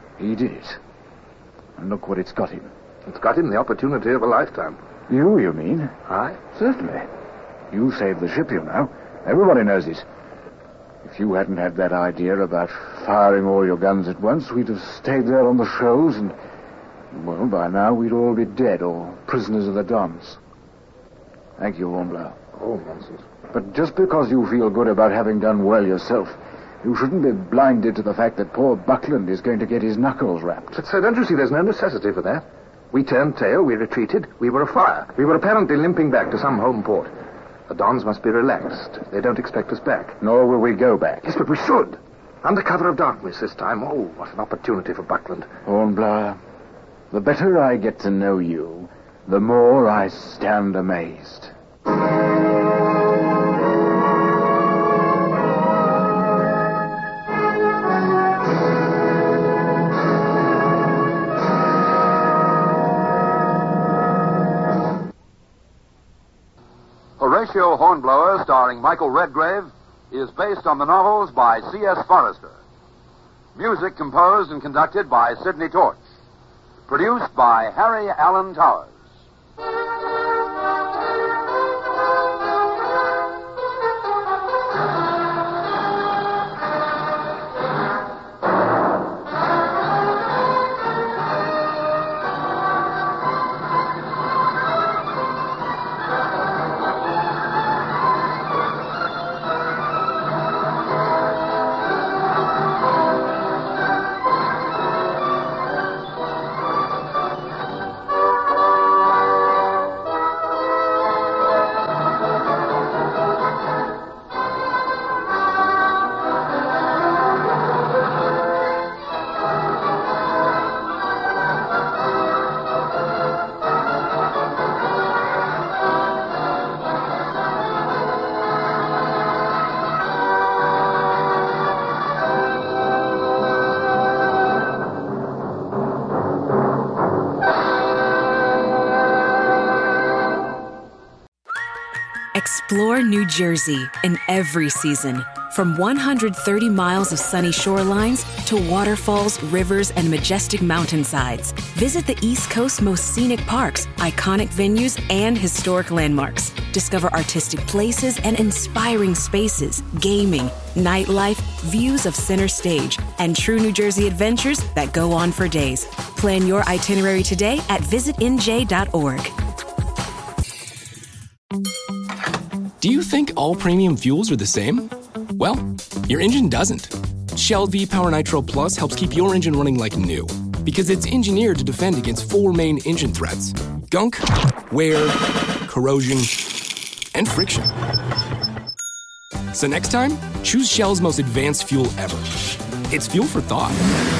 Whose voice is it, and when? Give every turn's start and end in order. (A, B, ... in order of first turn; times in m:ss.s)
0:00.2-0:00.8 A
0:01.8-0:02.7 A
0:03.1-0:04.8 B
0:05.1-0:05.9 A
0:06.1-0:06.4 B
0:06.5-0:07.1 A
0:07.7-0:10.0 A
0:11.0-0:16.4 A
0:17.1-0:20.4 A
0:21.6-0:22.4 A
0:22.6-0:23.2 B
0:23.5-0:30.8 A
0:30.7-0:37.1 B
0:37.7-0:40.2 B
0:40.2-0:41.3 A
0:41.2-0:45.5 B
0:45.6-0:46.4 A
0:47.1-0:51.5 A
1:07.2-1:12.6 C
1:13.6-1:16.0 C
1:16.9-1:18.9 C
2:22.3-2:49.3 D
2:52.8-3:06.3 E
3:07.1-3:07.7 E
3:09.5-3:12.3 E
3:12.9-3:13.8 E